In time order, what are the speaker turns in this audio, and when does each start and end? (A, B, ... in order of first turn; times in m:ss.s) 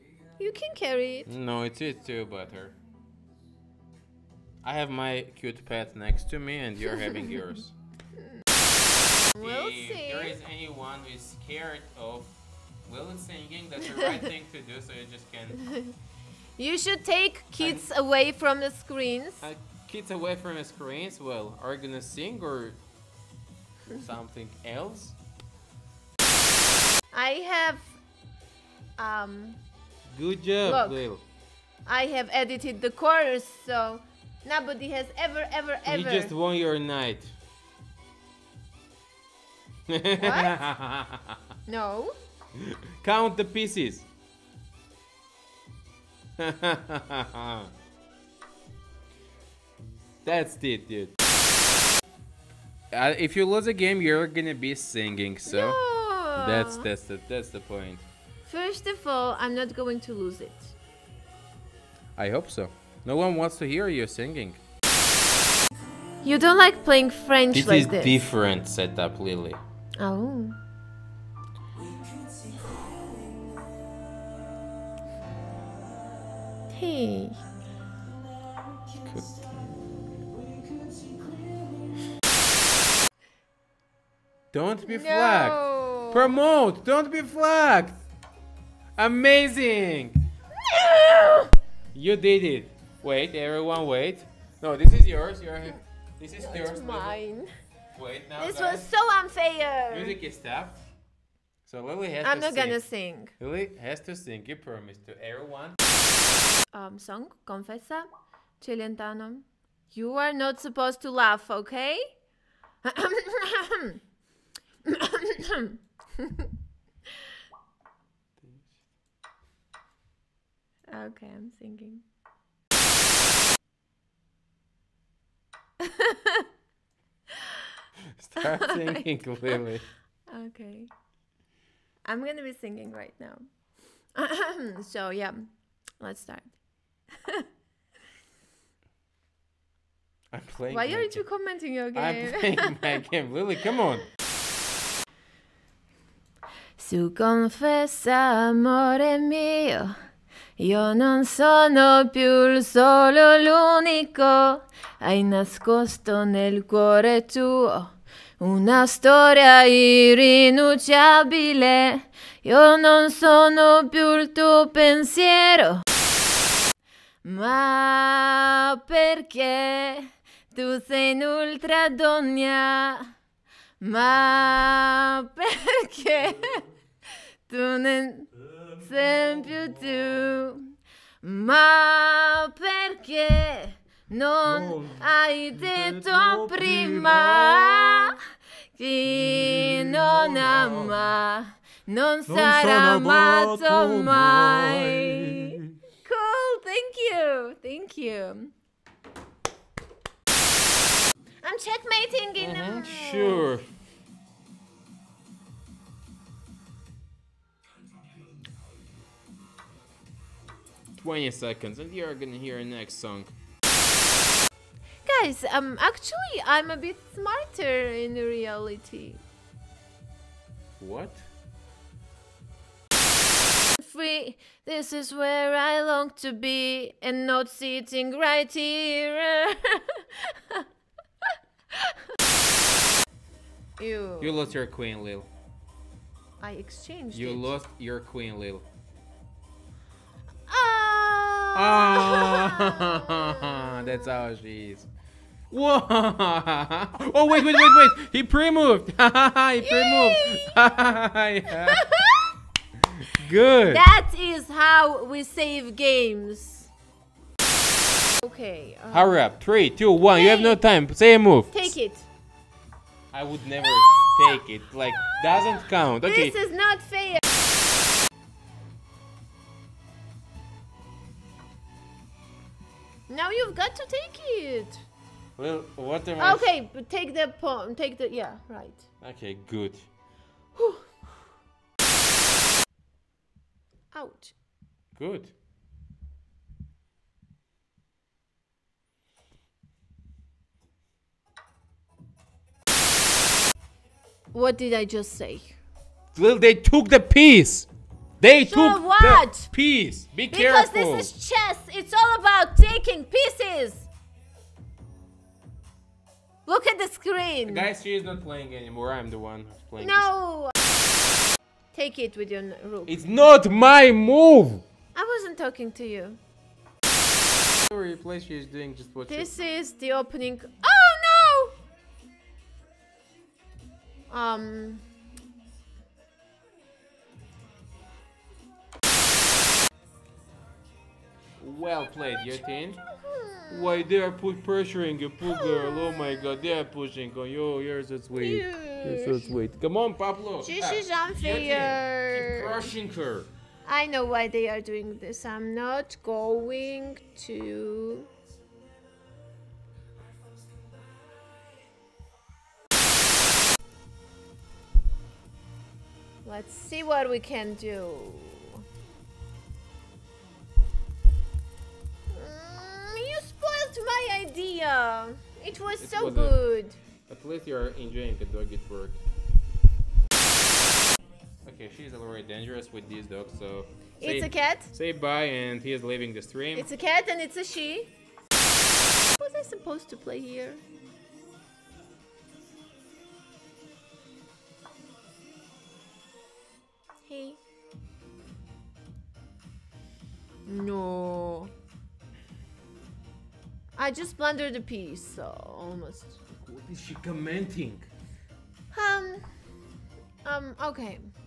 0:00.4-0:01.3 A
0:01.3-0:02.8 B
0:04.6-0:07.7 B
0:06.8-0:07.4 A
0:09.4-0:10.4 A
0:09.4-0:12.3 B
0:12.8-0:15.6 B
0:13.8-0:14.2 A
0:15.6-0:15.9 A
0:16.6-0:19.5 A
0:17.6-0:17.9 B
0:19.4-0:22.8 B
0:23.9-0:25.2 B
0:27.1-0:28.0 A
0:29.0-0:29.6 A
0:30.1-0:31.2 B
0:30.6-0:31.0 A
0:31.8-0:36.3 A
0:35.8-0:37.3 B
0:39.9-0:41.4 B
0:40.2-0:40.6 A
0:41.7-0:42.1 A
0:42.6-0:44.1 B
0:46.4-0:47.7 B
0:50.2-0:51.1 B
0:52.9-0:55.8 B
0:55.5-0:56.9 A
0:56.4-0:58.0 B
0:58.4-1:00.8 A
1:02.2-1:04.6 B
1:06.2-1:08.2 A
1:07.5-1:09.6 B
1:10.0-1:10.6 A
1:16.7-1:17.4 A
1:24.5-1:25.6 B
1:24.8-1:26.3 A
1:26.1-1:28.0 B
1:29.0-1:30.2 B
1:30.6-1:31.5 A
1:31.9-1:37.2 B
1:36.4-1:37.5 A
1:37.9-1:38.8 B
1:38.4-1:40.2 A
1:39.9-1:40.8 B
1:41.6-1:42.8 B
1:42.2-1:43.3 A
1:43.4-1:45.8 B
1:46.7-1:48.1 A
1:48.6-1:52.2 A
1:52.8-1:54.0 A
1:54.8-1:56.5 A
2:00.9-2:02.0 A
2:05.8-2:06.4 A
2:07.4-2:07.7 A
2:08.2-2:09.8 B
2:08.4-2:09.6 A
2:10.3-2:10.9 A
2:12.0-2:13.4 A
2:14.1-2:15.4 A
2:16.0-2:16.5 A
2:20.3-2:21.2 B
2:20.7-2:23.0 A
2:21.9-2:24.0 B
2:26.8-2:29.9 A
2:30.6-2:45.8 A
2:47.2-2:53.1 A
2:53.8-2:56.6 A
2:57.5-3:08.2 A
3:04.5-3:05.0 B
3:05.6-3:08.1 B
3:08.7-3:18.5 A
3:09.1-3:11.1 B
3:12.3-3:15.8 B
3:21.4-3:23.5 A
3:22.4-3:23.6 B
3:31.0-3:33.3 B
3:35.0-3:39.2 A
3:40.8-3:41.2 B
3:43.8-3:50.6 A
3:53.8-3:54.4 A
3:54.2-3:55.3 B
3:56.4-3:57.5 A
3:57.1-3:58.6 B
4:00.5-4:04.1 A
4:01.5-4:04.9 B
4:05.5-4:11.8 B
4:07.4-4:07.9 A
4:09.6-4:10.6 A
4:11.5-4:12.3 A
4:12.9-4:13.8 B
4:13.7-4:16.7 A
4:18.2-4:19.2 A
4:18.9-4:21.7 B
4:20.1-4:20.6 A
4:21.5-4:22.1 A
4:23.1-4:26.3 B
4:23.6-4:27.2 A
4:33.1-4:34.8 A
4:35.4-4:36.4 B
4:36.2-4:38.8 A
4:39.0-4:39.8 B
4:40.5-4:40.9 A
4:43.9-4:44.3 A
4:44.9-4:45.3 B
4:54.3-4:55.6 A
4:56.1-4:57.7 B
4:58.2-5:01.1 B
4:58.4-4:59.5 A
5:00.3-5:03.9 A
5:06.4-5:07.7 A
5:07.4-5:10.1 B
5:09.8-5:10.5 A
5:11.7-5:13.0 A
5:12.8-5:14.6 B
5:14.9-5:16.2 A
5:17.7-5:19.3 B
5:19.1-5:21.6 A
5:24.1-5:24.8 A
5:31.4-5:32.8 B
5:32.8-5:33.9 A
5:33.5-5:43.3 B
5:35.2-5:36.3 A
5:38.1-5:39.3 A
5:40.4-5:42.7 A
5:43.6-5:48.1 A
5:56.2-5:58.6 A
6:02.1-6:06.8 A
6:05.8-6:06.4 B
6:07.1-6:09.0 B
6:11.4-6:16.7 B
6:14.0-6:14.7 A
6:16.5-6:17.9 A
6:19.2-6:20.6 A
6:27.0-6:27.4 A
6:30.4-6:31.5 A
6:33.8-6:36.2 A
6:36.4-6:37.9 B
6:38.7-6:39.2 A
6:40.2-6:41.1 A